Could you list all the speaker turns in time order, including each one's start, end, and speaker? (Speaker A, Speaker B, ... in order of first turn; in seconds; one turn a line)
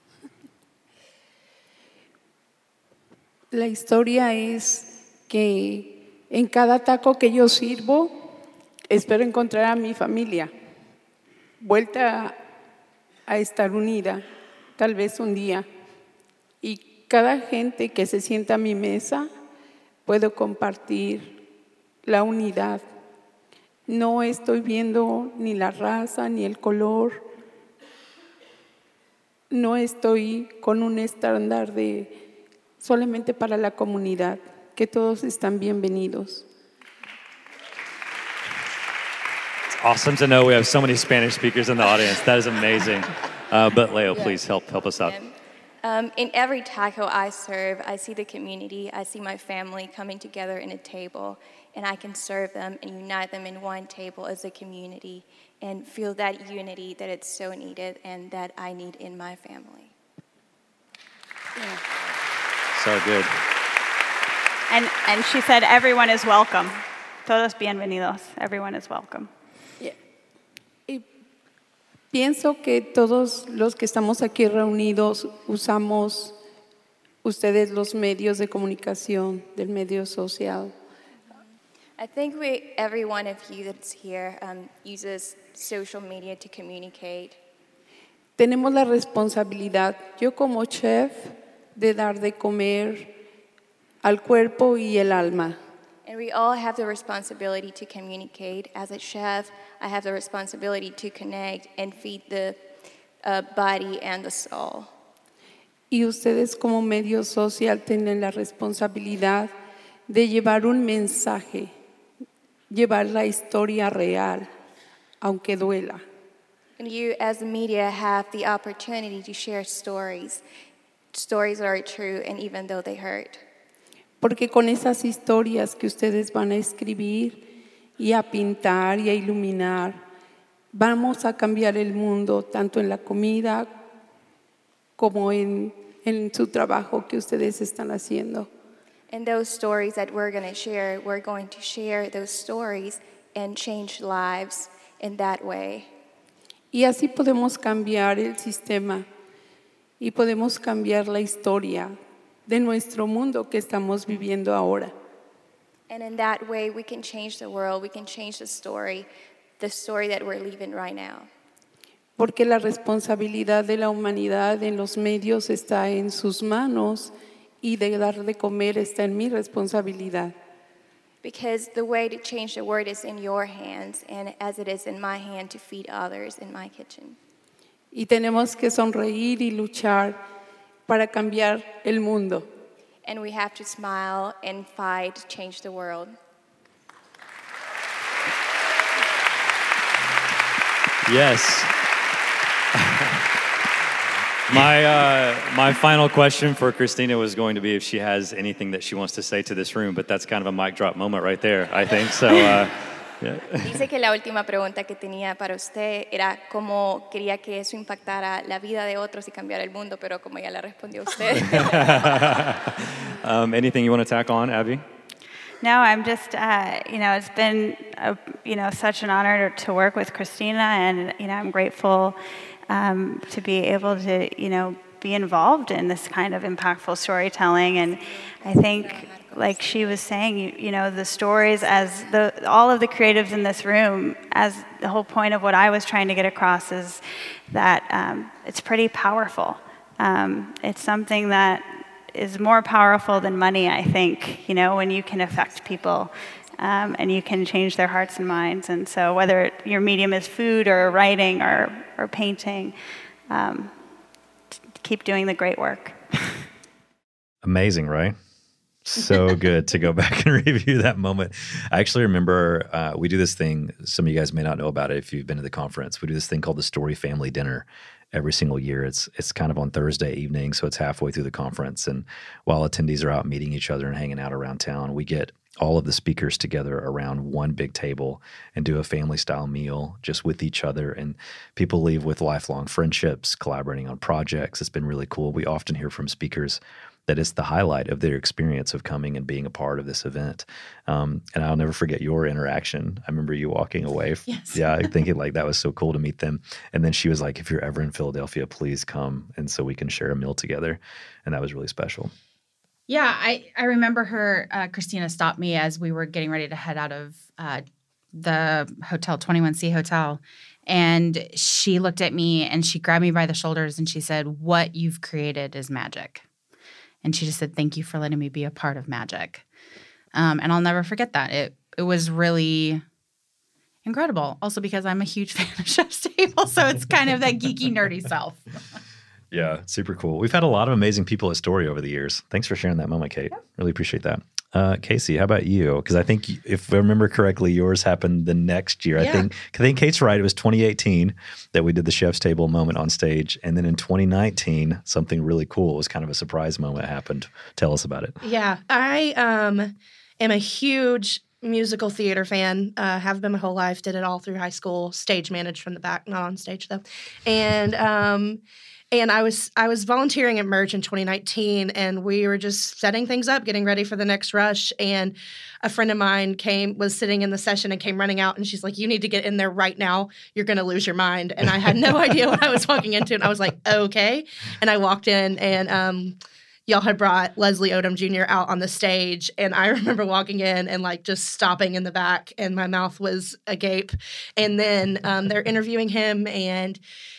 Speaker A: 3.5-8.2
Speaker A: 8.9-10.5
Speaker A: 11.6-12.4
Speaker A: 13.3-14.2
Speaker A: 14.8-15.7
Speaker A: 16.6-19.3
Speaker A: 20.1-21.4
Speaker A: 22.1-22.9
Speaker A: 23.9-27.3
Speaker A: 29.5-32.1
Speaker A: 32.8-36.4
Speaker B: 39.8-45.2
Speaker C: 45.0-45.3
Speaker C: 45.8-59.9
Speaker B: 62.7-63.3
Speaker D: 64.7-69.3
Speaker A: 72.1-76.4
Speaker A: 77.2-80.7
Speaker C: 82.0-87.4
Speaker A: 88.4-93.1
Speaker A: 94.0-95.6
Speaker C: 96.0-102.6
Speaker C: 103.2-104.9
Speaker A: 105.9-109.5
Speaker A: 110.1-111.7
Speaker A: 112.7-114.5
Speaker A: 115.2-116.0
Speaker C: 116.8-120.4
Speaker C: 121.1-123.4
Speaker A: 124.2-127.4
Speaker A: 128.0-130.0
Speaker A: 130.7-133.7
Speaker A: 135.0-138.5
Speaker C: 139.1-145.9
Speaker A: 146.7-149.1
Speaker A: 150.0-151.9
Speaker A: 152.5-154.9
Speaker C: 155.9-159.1
Speaker C: 159.6-161.3
Speaker A: 162.2-170.3
Speaker C: 171.2-177.2
Speaker A: 177.9-180.2
Speaker A: 180.9-182.4
Speaker C: 183.1-186.2
Speaker B: 191.1-191.7
Speaker B: 192.8-193.2
Speaker B: 194.5-203.8
Speaker C: 203.6-212.5
Speaker B: 211.3-214.8
Speaker D: 215.6-222.2
Speaker D: 222.7-252.8
Speaker C: 227.8-230.0
Speaker D: 253.3-253.7
Speaker D: 254.7-256.4
Speaker B: 257.4-258.2
Speaker B: 258.9-302.1
Speaker E: 294.3-294.8
Speaker E: 302.9-316.2
Speaker E: 317.0-319.4
Speaker E: 320.1-322.8
Speaker E: 323.9-328.5
Speaker B: 329.3-348.2
Speaker F: 339.0-339.3
Speaker F: 348.2-358.4
Speaker F: 358.9-386.8